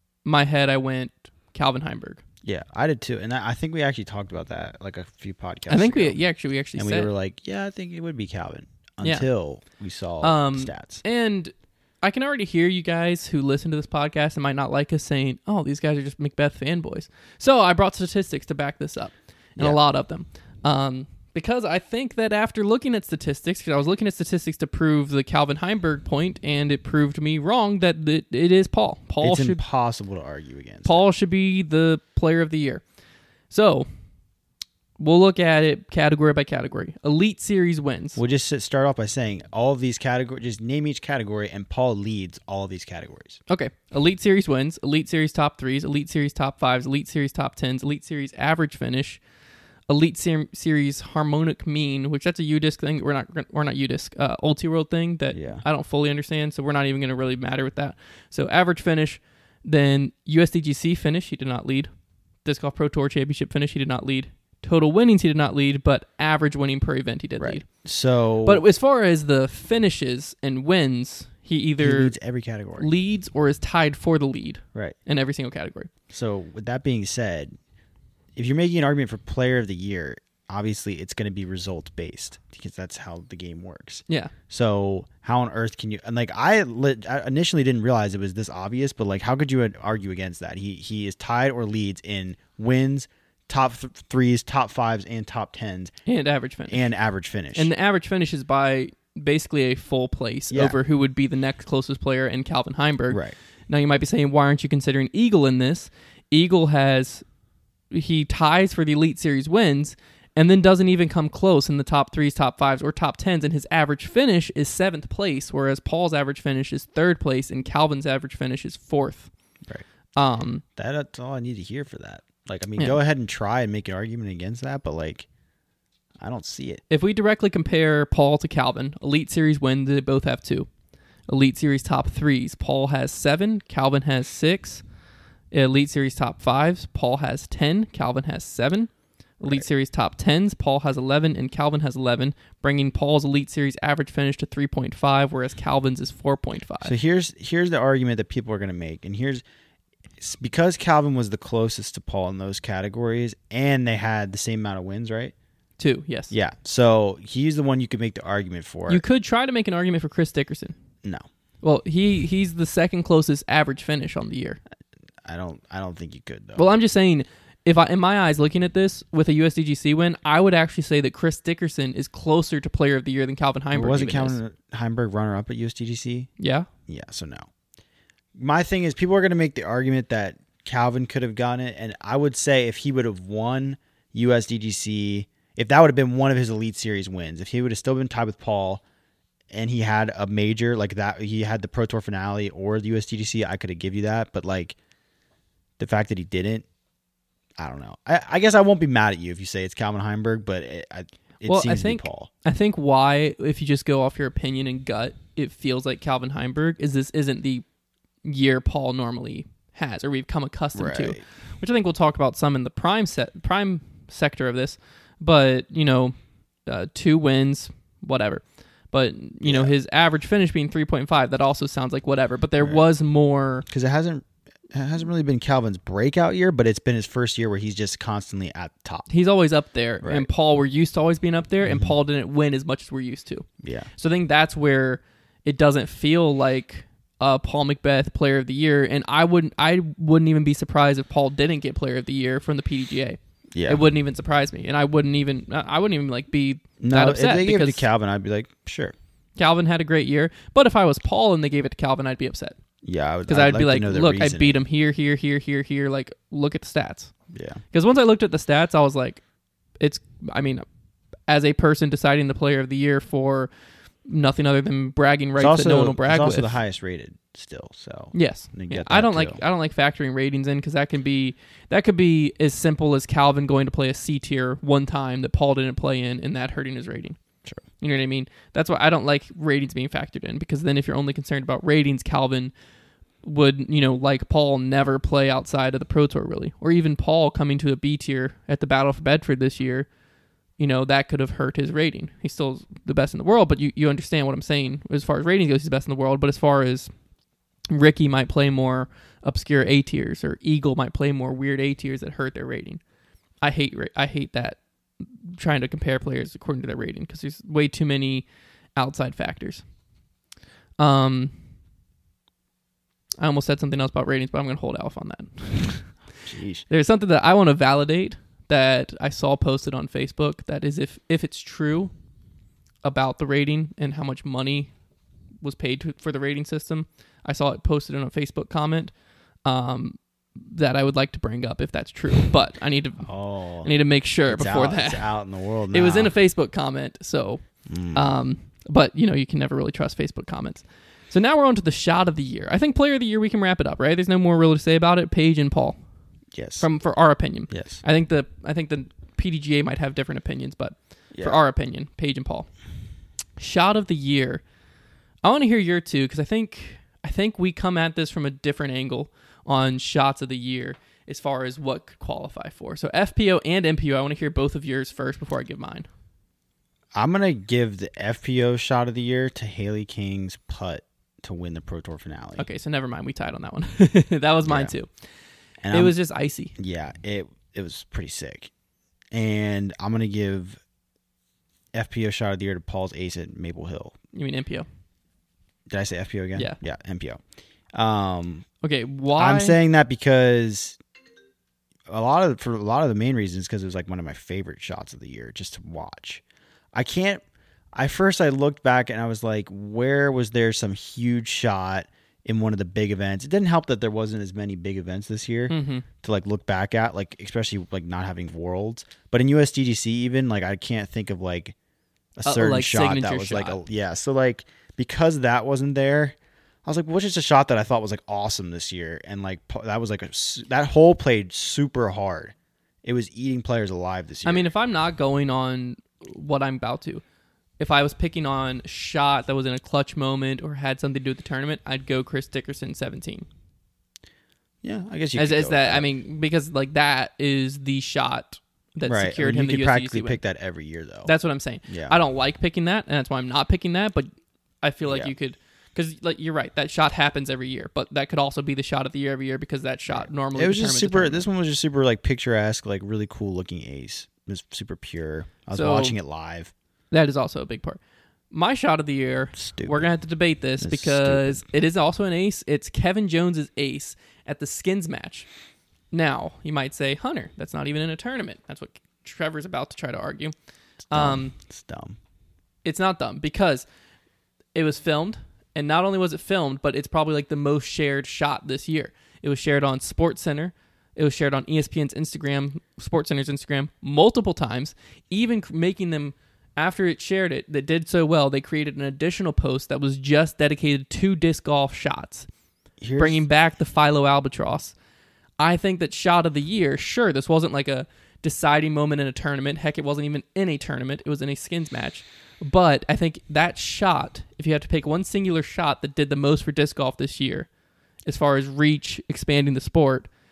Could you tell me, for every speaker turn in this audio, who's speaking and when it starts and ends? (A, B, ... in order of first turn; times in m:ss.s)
0:00.2-0:02.2 A
0:02.4-0:06.2 B
0:05.7-0:07.1 A
0:06.8-0:11.0 B
0:10.2-0:29.6 A
0:29.2-0:31.0 B
0:30.8-0:32.8 A
0:33.5-0:33.8 A
0:35.0-0:38.2 A
0:38.2-0:43.4 B
0:43.5-0:49.2 A
0:49.9-1:01.9 A
0:55.3-0:55.6 B
1:02.4-1:07.6 A
1:07.4-1:08.6 B
1:08.4-1:12.1 A
1:11.8-1:12.9 B
1:12.8-1:15.9 A
1:16.1-1:17.5 B
1:18.4-1:35.9 B
1:36.0-1:36.9 A
1:36.7-1:37.7 B
1:37.5-1:47.2 A
1:40.5-1:40.8 B
1:43.1-1:43.4 B
1:47.9-1:59.3 A
2:00.2-2:00.6 A
2:00.8-2:05.3 B
2:06.2-2:06.8 B
2:06.9-2:10.7 A
2:11.3-2:14.8 A
2:15.5-2:26.9 A
2:26.8-2:29.4 B
2:30.2-2:35.3 B
2:35.8-2:36.3 A
2:36.3-2:39.0 B
2:38.9-2:40.7 A
2:41.6-2:44.6 A
2:45.2-2:46.6 B
2:46.6-2:54.4 A
2:53.7-2:56.3 B
2:56.4-2:56.7 A
2:56.9-2:57.5 B
2:58.4-3:08.8 B
3:09.5-3:14.8 B
3:15.8-3:16.6 B
3:17.6-3:22.3 B
3:21.4-3:27.6 A
3:28.2-3:36.1 A
3:30.7-3:31.2 B
3:36.6-3:43.6 A
3:39.4-3:39.7 B
3:43.7-3:49.1 B
3:49.1-4:07.8 A
3:50.0-3:50.3 B
3:51.6-3:51.9 B
3:53.6-3:53.9 B
4:03.5-4:03.8 B
4:06.8-4:08.9 B
4:09.4-4:12.6 A
4:12.8-4:14.6 B
4:13.3-4:17.1 A
4:17.3-4:17.6 B
4:17.7-4:19.2 A
4:19.8-4:20.6 A
4:21.3-4:23.5 A
4:24.1-4:26.5 A
4:25.4-4:29.4 B
4:28.1-4:37.2 A
4:37.8-4:42.5 A
4:43.2-4:49.9 A
4:50.6-4:56.9 A
4:57.7-5:02.8 A
5:03.4-5:04.6 A
5:05.2-5:09.6 A
5:10.8-5:11.3 A
5:13.2-5:15.9 A
5:16.3-5:16.6 B
5:16.7-5:21.9 A
5:22.8-5:24.7 A
5:25.4-5:28.9 A
5:29.4-5:33.1 A
5:33.0-5:33.7 B
5:33.6-5:35.1 A
5:34.3-5:36.1 B
5:35.7-5:37.4 A
5:37.7-5:38.1 B
5:37.9-5:45.8 A
5:46.3-5:46.7 B
5:46.6-5:52.5 A
5:47.5-5:47.8 B
5:53.4-5:54.4 A
5:55.2-6:05.9 A
6:06.9-6:12.4 B
6:12.4-6:14.9 A
6:14.4-6:14.7 B
6:15.6-6:15.9 B
6:15.7-6:16.5 A
6:16.6-6:18.5 B
6:19.1-6:20.6 B
6:21.7-6:23.9 B
6:24.1-6:24.6 A
6:25.7-6:27.2 B
6:27.7-6:28.4 B
6:28.6-6:29.6 A
6:29.2-6:30.8 B
6:31.9-6:36.2 B
6:36.7-6:37.2 B
6:37.7-6:51.5 B
6:45.5-6:45.8 A
6:52.2-7:04.5 B
6:52.2-6:53.6 A
7:04.2-7:07.0 A
7:07.6-7:13.2 A
7:14.6-7:15.8 B
7:15.2-7:20.2 A
7:18.9-7:21.1 B
7:21.0-7:24.1 A
7:21.7-7:22.0 B
7:24.6-7:31.2 A
7:24.9-7:25.1 B
7:29.9-7:36.5 B
7:35.5-7:36.0 A
7:36.9-7:37.8 A
7:38.3-7:45.3 A
7:39.4-7:39.9 B
7:40.6-7:41.4 B
7:45.9-7:50.3 A
7:50.9-7:51.3 A
7:50.9-7:52.0 B
7:52.6-7:53.6 A
7:54.5-8:12.3 A
8:12.8-8:13.2 B
8:13.0-8:14.7 A
8:15.4-8:27.5 A
8:28.0-8:30.1 A